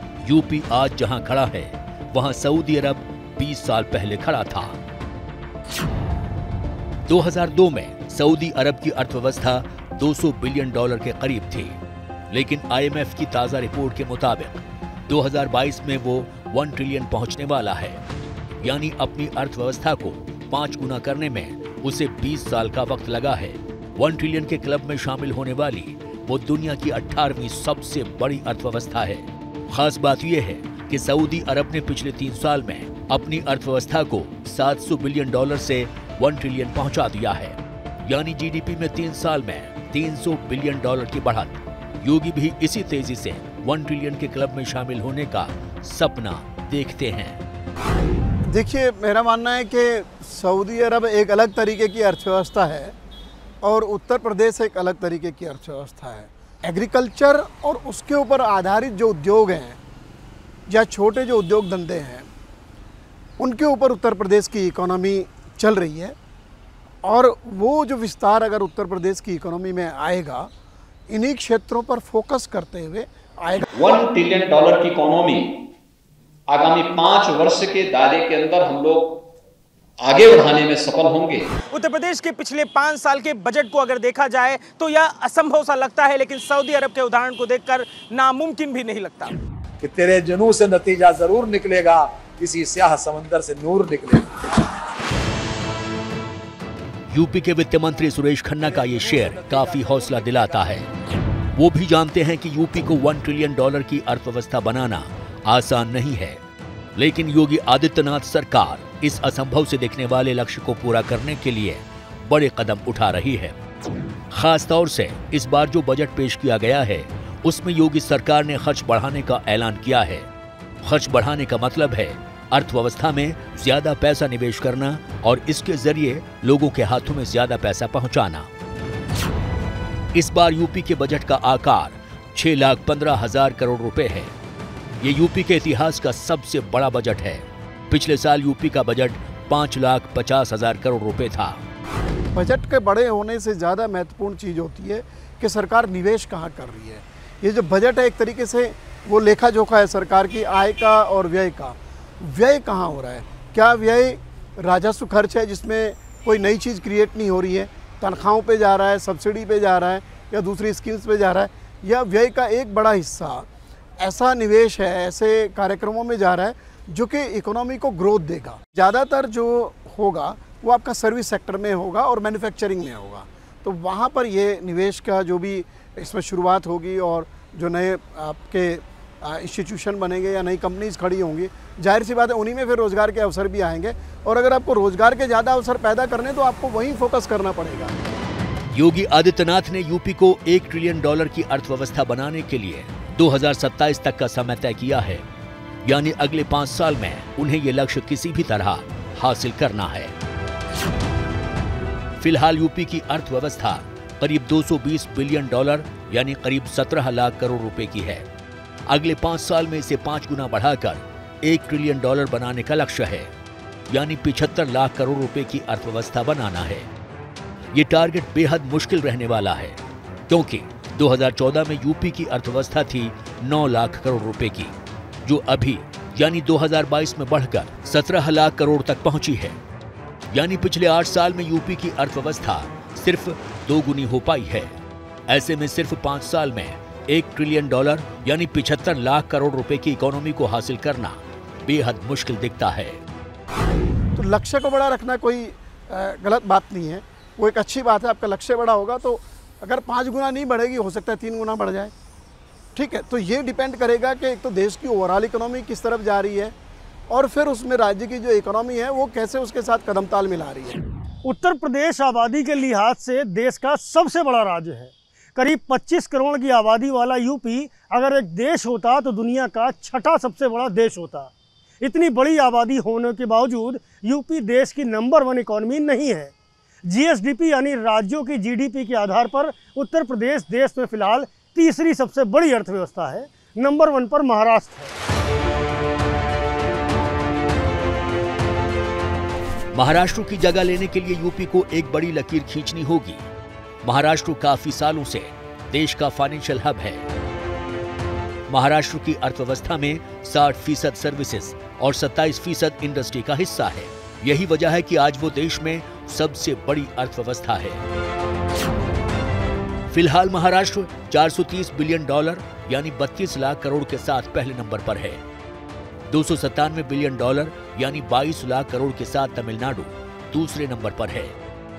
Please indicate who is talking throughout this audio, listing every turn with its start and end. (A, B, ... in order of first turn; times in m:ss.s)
0:00.2-0:04.8 A
0:07.1-0:11.8 A
0:12.3-0:18.0 A
0:18.6-0:47.4 A
0:48.5-0:52.9 B
0:53.6-0:59.8 B
1:00.7-1:02.3 B
1:03.4-1:06.2 B
1:07.0-1:10.5 B
1:11.1-1:13.6 B
1:13.7-1:15.6 C
1:16.5-1:19.2 C
1:20.0-1:21.5 C
1:21.7-1:29.4 D
1:29.8-1:34.3 E
1:37.1-1:40.9 A
1:38.6-1:40.8 E
1:41.6-1:46.4 A
1:47.0-1:53.6 A
1:54.3-2:00.3 A
2:00.8-2:08.5 A
2:10.2-2:14.3 A
2:15.0-2:21.6 A
2:22.3-2:43.5 B
2:44.0-3:07.9 B
3:08.7-3:15.2 A
3:15.8-3:20.1 A
3:22.2-3:28.3 A
3:28.9-3:33.3 A
3:33.9-3:36.9 A
3:37.7-3:39.8 A
3:40.3-3:44.7 A
3:45.2-3:49.6 A
3:50.3-3:54.8 A
3:55.3-4:03.0 A
4:04.1-4:11.9 B
4:12.8-4:16.5 B
4:17.1-4:20.8 B
4:21.2-4:31.3 F
4:31.8-4:36.3 F
4:36.9-4:44.9 F
4:49.7-4:53.2 A
4:53.8-4:57.0 A
4:58.5-5:07.8 A
5:09.9-5:15.2 A
5:16.1-5:21.3 A